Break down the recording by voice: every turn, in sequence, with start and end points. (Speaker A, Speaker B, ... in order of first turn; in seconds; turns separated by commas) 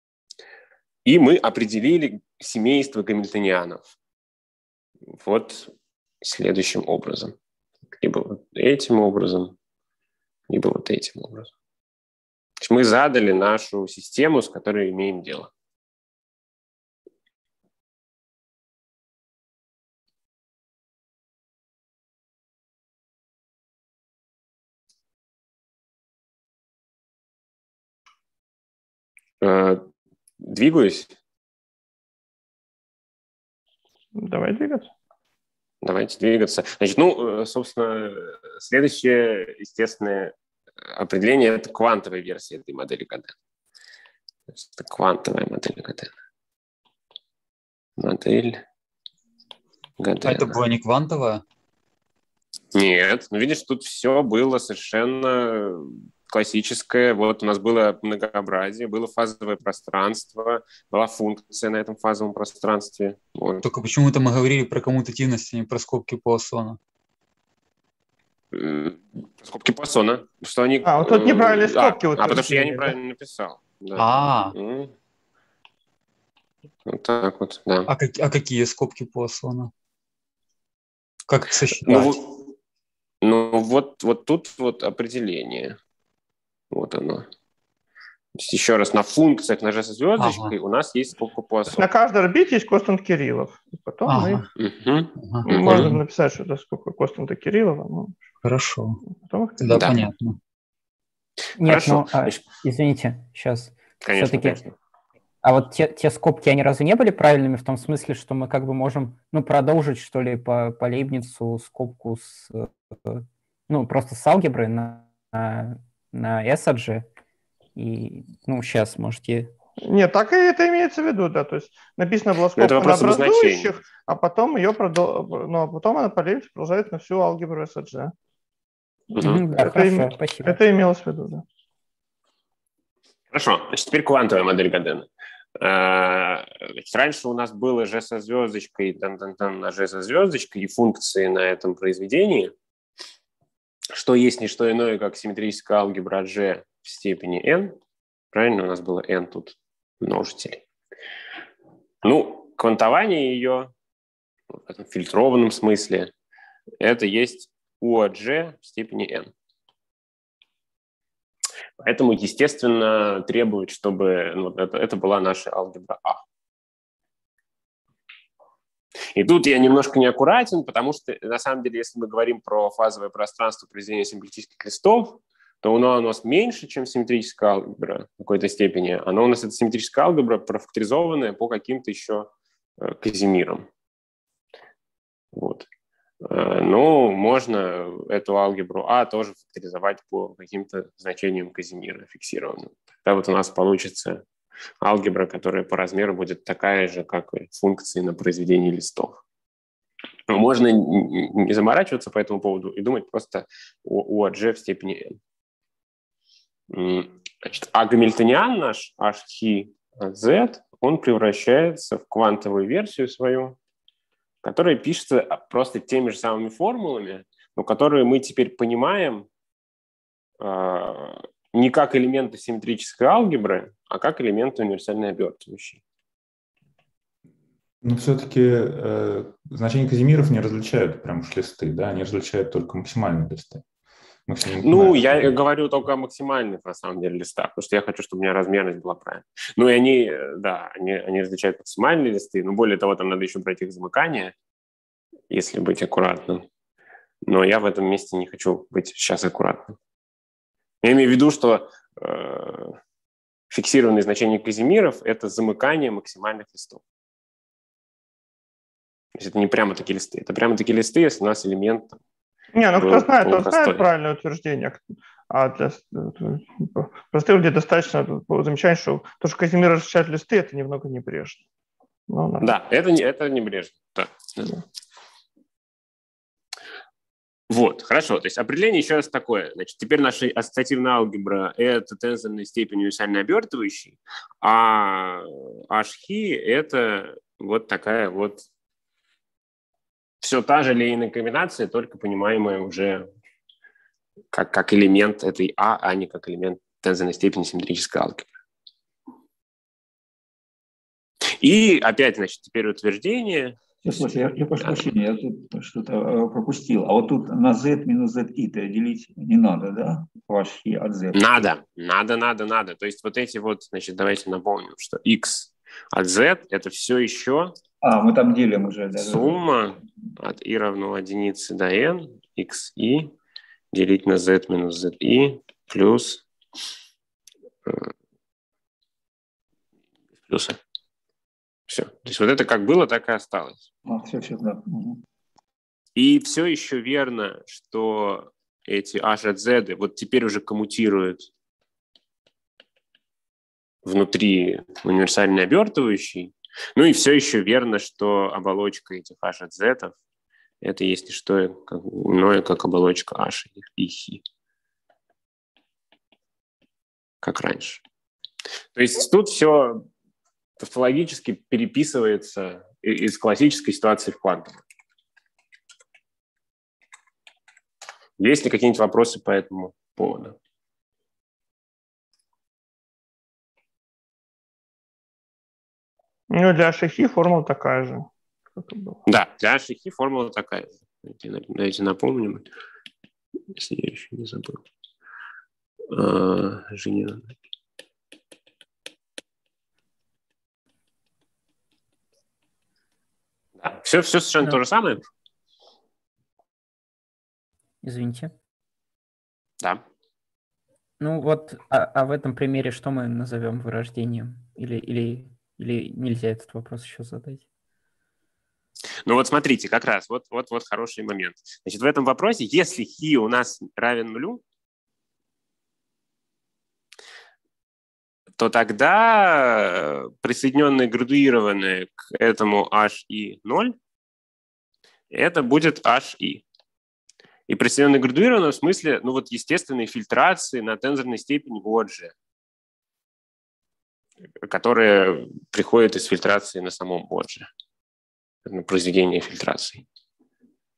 Speaker A: 1.1-3.9, Speaker A: 5.2-7.3, Speaker A: 8.0-9.6, Speaker A: 10.5-11.5, Speaker A: 12.6-15.5, Speaker A: 29.4-29.8, Speaker A: 30.4-31.1, Speaker B: 34.1-34.9, Speaker A: 35.8-40.3, Speaker A: 40.9-43.3, Speaker A: 44.5-46.1, Speaker A: 48.0-48.6, Speaker A: 50.0-50.6, Speaker C: 50.2-51.4, Speaker A: 52.7-63.7, Speaker C: 63.6-66.8, Speaker A: 68.5-74.9, Speaker B: 70.8-73.0, Speaker C: 74.0-74.5, Speaker A: 76.9-77.9, Speaker C: 77.9-79.7, Speaker C: 81.3-82.2, Speaker A: 81.8-82.4, Speaker A: 83.2-85.8, Speaker A: 86.7-87.3, Speaker A: 88.3-91.9, Speaker C: 90.2-90.5, Speaker B: 91.7-94.4, Speaker C: 94.0-94.5, Speaker A: 94.6-95.9, Speaker C: 95.2-96.0, Speaker B: 95.5-98.2, Speaker C: 98.4-99.0, Speaker B: 99.1-99.6, Speaker C: 99.6-100.4, Speaker A: 99.7-100.0, Speaker A: 101.6-102.4, Speaker D: 101.6-104.6, Speaker A: 104.0-104.7, Speaker D: 105.4-117.1, Speaker D: 117.8-119.5, Speaker B: 119.8-128.1, Speaker A: 122.6-123.7, Speaker A: 129.2-129.4, Speaker D: 129.2-130.6, Speaker B: 129.5-131.4, Speaker A: 133.3-142.5, Speaker A: 143.9-147.8, Speaker A: 148.3-150.6, Speaker A: 152.0-153.7, Speaker A: 154.5-156.1, Speaker A: 156.8-159.3, Speaker A: 161.8-166.2, Speaker A: 169.1-183.7, Speaker A: 185.3-185.7, Speaker A: 186.2-194.2, Speaker A: 194.8-199.2, Speaker A: 200.3-205.2, Speaker A: 206.7-213.6, Speaker A: 214.4-219.3, Speaker A: 220.4-225.8, Speaker E: 227.8-233.6, Speaker E: 234.3-235.1, Speaker A: 234.6-244.3, Speaker A: 245.3-246.5, Speaker A: 247.2-249.8, Speaker A: 250.8-252.8, Speaker A: 253.5-256.8, Speaker A: 259.2-262.0, Speaker B: 262.5-271.4, Speaker A: 262.8-263.9, Speaker B: 272.1-272.5, Speaker A: 272.4-274.5, Speaker A: 277.5-288.4, Speaker A: 290.2-293.1, Speaker A: 294.3-298.3, Speaker A: 301.4-304.9, Speaker F: 303.8-311.4, Speaker A: 311.1-317.6, Speaker F: 317.8-319.4, Speaker A: 319.0-323.1, Speaker A: 323.7-326.2, Speaker A: 327.7-327.9, Speaker A: 330.3-330.6, Speaker A: 331.7-333.6, Speaker F: 333.9-335.0, Speaker A: 336.0-341.3, Speaker A: 343.9-349.9, Speaker A: 350.6-354.2, Speaker A: 357.2-357.8, Speaker A: 358.8-359.9, Speaker A: 360.6-364.6, Speaker A: 368.2-370.4, Speaker B: 376.3-379.0, Speaker A: 379.1-382.5, Speaker A: 383.5-384.6, Speaker A: 385.9-387.3, Speaker A: 393.6-395.0, Speaker D: 397.8-398.3, Speaker D: 401.0-407.4, Speaker A: 409.1-414.4, Speaker A: 418.4-423.8, Speaker A: 425.1-426.4, Speaker A: 427.5-432.1, Speaker A: 434.4-437.5, Speaker A: 438.5-439.9